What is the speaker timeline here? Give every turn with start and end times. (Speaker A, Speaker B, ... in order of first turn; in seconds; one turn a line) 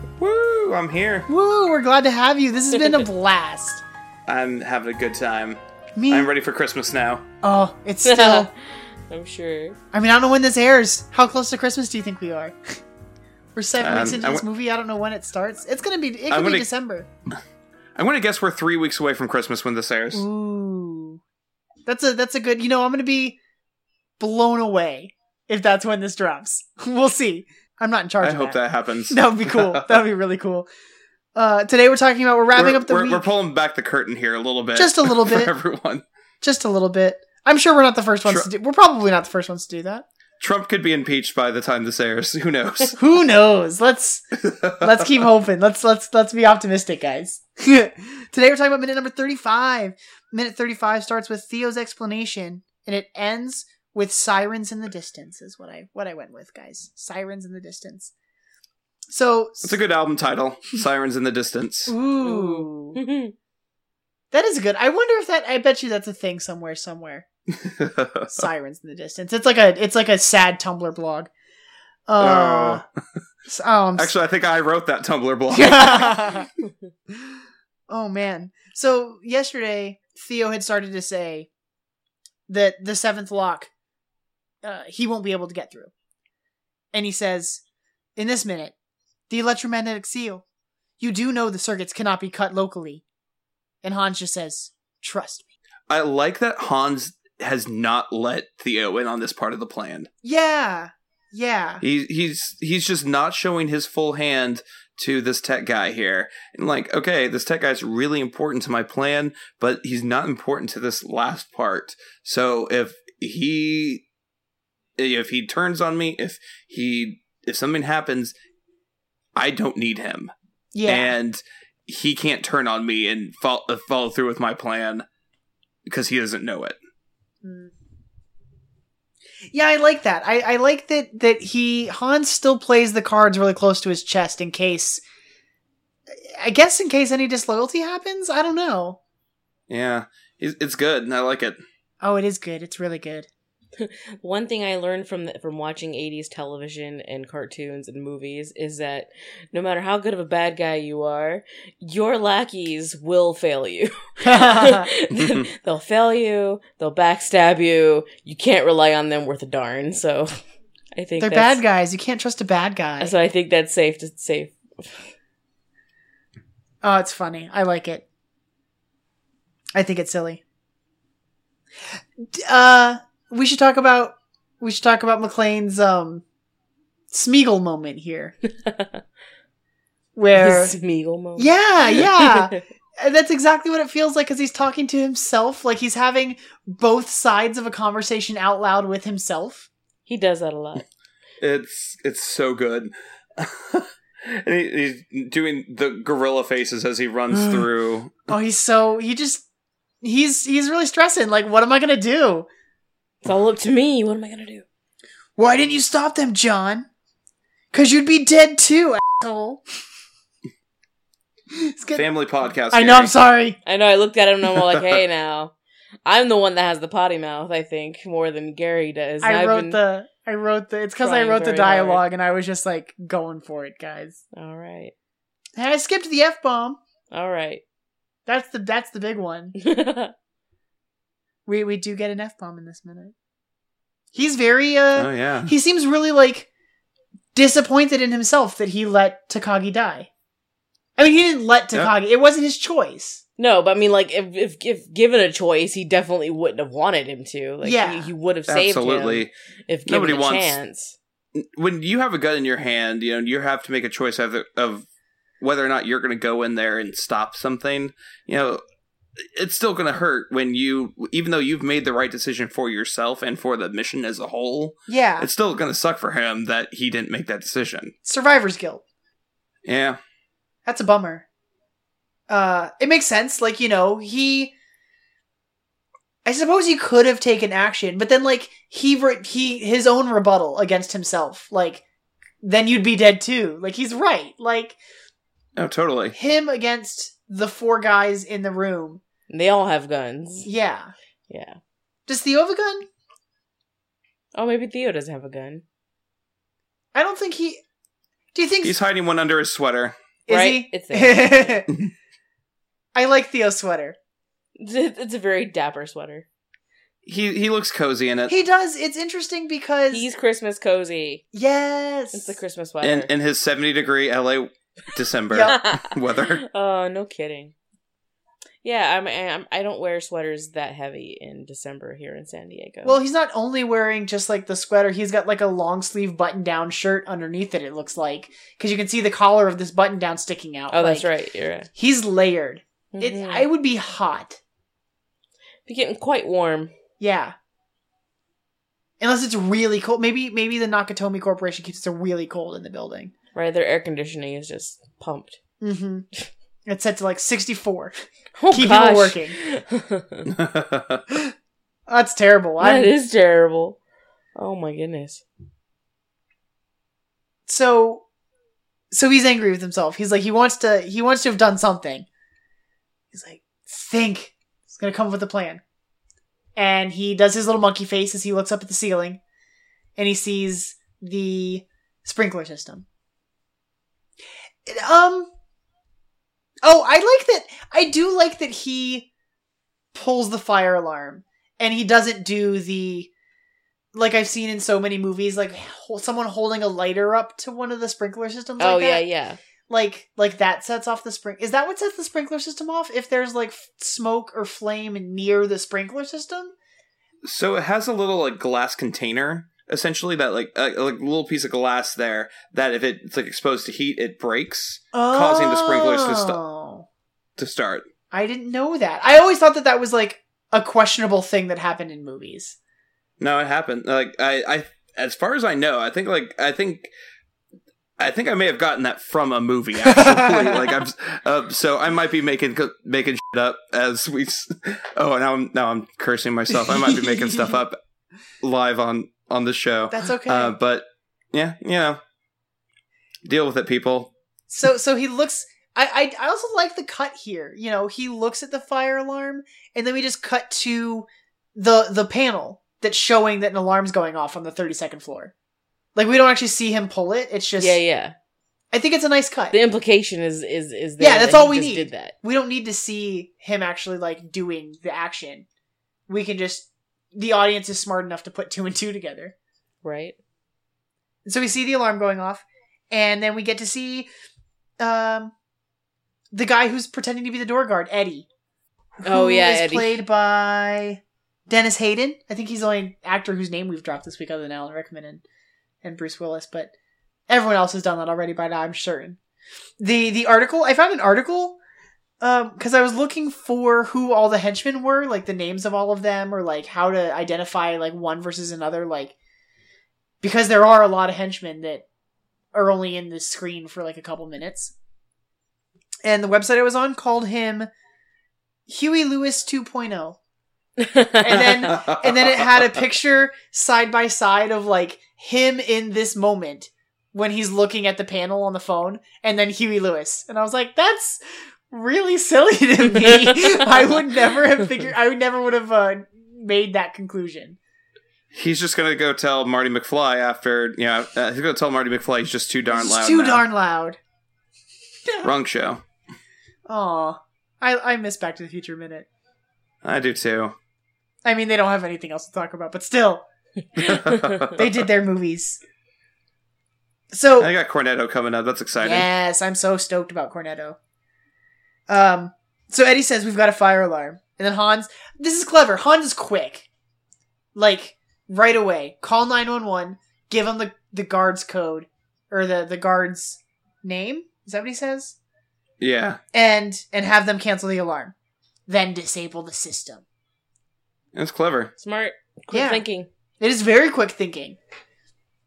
Speaker A: 0.2-1.3
Speaker B: 1.3-3.8
Speaker A: 4.3-7.2
Speaker B: 5.9-6.3
Speaker B: 7.4-8.5
Speaker C: 8.0-8.5
Speaker C: 9.1-9.8
Speaker B: 9.9-12.6
Speaker B: 13.5-17.1
Speaker A: 13.8-14.4
Speaker A: 16.3-16.7
Speaker A: 17.9-20.2
Speaker B: 20.1-21.2
Speaker B: 21.9-23.4
Speaker B: 24.2-28.6
Speaker A: 28.2-30.0
Speaker B: 29.1-30.7
Speaker B: 31.3-33.3
Speaker A: 32.5-36.0
Speaker B: 34.7-35.5
Speaker B: 36.4-40.0
Speaker A: 40.4-43.0
Speaker B: 43.0-44.2
Speaker A: 44.4-44.9
Speaker B: 44.8-58.1
Speaker B: 59.1-59.8
Speaker A: 59.6-61.9
Speaker B: 61.9-63.0
Speaker C: 62.2-63.3
Speaker B: 64.3-67.2
Speaker A: 67.6-68.4
Speaker B: 68.3-71.3
Speaker B: 72.1-72.8
Speaker A: 72.2-72.8
Speaker B: 73.5-74.1
Speaker A: 74.0-76.4
Speaker B: 75.5-76.5
Speaker B: 77.2-81.5
Speaker B: 82.5-83.7
Speaker B: 84.6-85.9
Speaker B: 86.9-87.6
Speaker B: 88.2-88.7
Speaker B: 89.3-90.4
Speaker B: 91.0-93.0
Speaker B: 93.8-95.5
Speaker A: 95.9-100.1
Speaker B: 100.2-101.8
Speaker A: 101.8-114.0
Speaker A: 115.0-118.3
Speaker A: 119.3-120.3
Speaker B: 120.7-121.1
Speaker A: 120.8-125.0
Speaker A: 125.9-126.8
Speaker B: 127.4-127.7
Speaker B: 129.5-135.0
Speaker B: 136.1-139.0
Speaker A: 139.7-141.6
Speaker B: 142.0-143.3
Speaker C: 143.8-160.4
Speaker B: 154.2-154.9
Speaker A: 155.1-155.5
Speaker C: 160.9-161.6
Speaker B: 161.2-163.1
Speaker C: 163.0-165.1
Speaker B: 166.8-168.0
Speaker B: 169.7-170.4
Speaker B: 172.2-176.2
Speaker B: 177.1-178.3
Speaker C: 178.5-179.0
Speaker B: 180.2-180.7
Speaker C: 180.3-182.6
Speaker B: 181.3-189.7
Speaker C: 190.1-190.8
Speaker A: 191.4-198.3
Speaker B: 198.3-199.4
Speaker B: 200.0-202.5
Speaker C: 203.2-204.6
Speaker B: 205.4-206.9
Speaker B: 207.7-209.6
Speaker B: 211.5-212.1
Speaker A: 211.9-213.1
Speaker B: 212.7-213.6
Speaker C: 213.6-215.5
Speaker C: 216.1-219.8
Speaker B: 219.2-224.2
Speaker C: 221.0-222.0
Speaker C: 224.3-224.9
Speaker B: 225.6-226.8
Speaker C: 227.1-227.6
Speaker B: 228.2-229.5
Speaker C: 229.6-230.1
Speaker B: 231.4-233.1
Speaker B: 234.1-236.5
Speaker A: 234.9-235.5
Speaker B: 237.3-240.1
Speaker B: 241.0-243.2
Speaker C: 243.4-251.0
Speaker B: 247.6-248.1
Speaker A: 248.5-249.3
Speaker A: 249.9-250.6
Speaker A: 251.3-254.8
Speaker A: 255.4-258.6
Speaker A: 259.4-267.9
Speaker B: 264.9-265.3
Speaker B: 268.0-268.8
Speaker A: 269.6-270.0
Speaker B: 270.6-271.2
Speaker B: 272.3-274.5
Speaker B: 276.2-281.8
Speaker B: 282.4-284.8
Speaker A: 285.6-286.1
Speaker B: 286.1-289.0
Speaker C: 289.3-290.5
Speaker B: 290.4-290.9
Speaker C: 291.3-291.6
Speaker B: 292.1-292.9
Speaker C: 294.3-295.6
Speaker B: 296.9-297.6
Speaker B: 298.3-298.8
Speaker A: 298.6-299.9
Speaker B: 300.3-301.7
Speaker C: 300.3-301.6
Speaker B: 302.9-303.9
Speaker C: 304.6-306.2
Speaker A: 307.1-308.4
Speaker B: 308.3-310.1
Speaker C: 309.9-311.2
Speaker B: 311.3-312.4
Speaker C: 312.1-313.1
Speaker A: 312.8-316.4
Speaker B: 315.3-315.6
Speaker C: 315.4-317.5
Speaker C: 318.6-323.0
Speaker B: 322.8-331.1
Speaker C: 330.7-331.7
Speaker B: 331.7-334.4
Speaker C: 332.9-333.5
Speaker C: 335.7-336.7
Speaker B: 337.0-337.3
Speaker B: 339.0-343.1
Speaker C: 343.3-345.4
Speaker B: 345.6-346.1
Speaker B: 346.6-347.9
Speaker C: 348.4-350.3
Speaker B: 348.5-349.4
Speaker A: 350.3-351.0
Speaker B: 351.9-352.9
Speaker C: 352.6-353.8
Speaker C: 354.4-355.2
Speaker B: 357.5-358.0
Speaker B: 358.9-362.1
Speaker B: 363.1-365.6
Speaker B: 366.6-369.2
Speaker B: 370.0-372.9
Speaker B: 374.6-375.3
Speaker B: 376.6-379.1
Speaker B: 379.9-383.1
Speaker B: 383.9-389.0
Speaker C: 388.6-389.4
Speaker B: 389.7-396.5
Speaker A: 397.2-406.4
Speaker B: 404.9-406.9
Speaker A: 407.4-407.8
Speaker B: 408.1-412.6
Speaker A: 413.2-416.9
Speaker A: 418.0-427.8
Speaker B: 419.8-420.8
Speaker B: 426.6-427.5
Speaker A: 428.4-432.0
Speaker B: 429.9-430.5
Speaker A: 433.2-434.1
Speaker B: 434.5-445.3
Speaker B: 445.9-447.8
Speaker C: 447.6-448.1
Speaker B: 448.7-449.6
Speaker C: 449.5-452.1
Speaker B: 451.0-455.4
Speaker B: 456.1-459.3
Speaker C: 459.8-460.2
Speaker B: 461.2-464.1
Speaker B: 464.8-465.3
Speaker B: 466.3-468.3
Speaker B: 469.0-475.2
Speaker C: 469.0-470.0
Speaker B: 475.8-476.7
Speaker B: 477.3-479.2
Speaker B: 479.8-481.6
Speaker B: 482.2-489.1
Speaker B: 490.2-491.8
Speaker B: 492.5-494.7
Speaker B: 496.0-497.7
Speaker B: 498.7-500.2
Speaker C: 500.8-501.5
Speaker B: 501.2-517.6
Speaker A: 501.5-502.5
Speaker C: 512.9-513.7
Speaker A: 518.3-523.4
Speaker B: 522.7-524.0
Speaker A: 525.2-525.8
Speaker B: 526.7-529.1
Speaker A: 529.8-530.5
Speaker B: 531.2-533.2
Speaker A: 533.8-534.6
Speaker C: 534.0-534.4
Speaker B: 534.5-535.6
Speaker B: 537.1-537.5
Speaker A: 537.4-539.1
Speaker B: 538.8-540.8
Speaker B: 541.9-546.7
Speaker B: 547.5-555.2
Speaker A: 555.8-556.2
Speaker B: 556.3-558.1
Speaker B: 558.7-560.0
Speaker A: 561.1-561.7
Speaker C: 561.8-563.1
Speaker B: 562.5-562.8
Speaker B: 563.4-564.6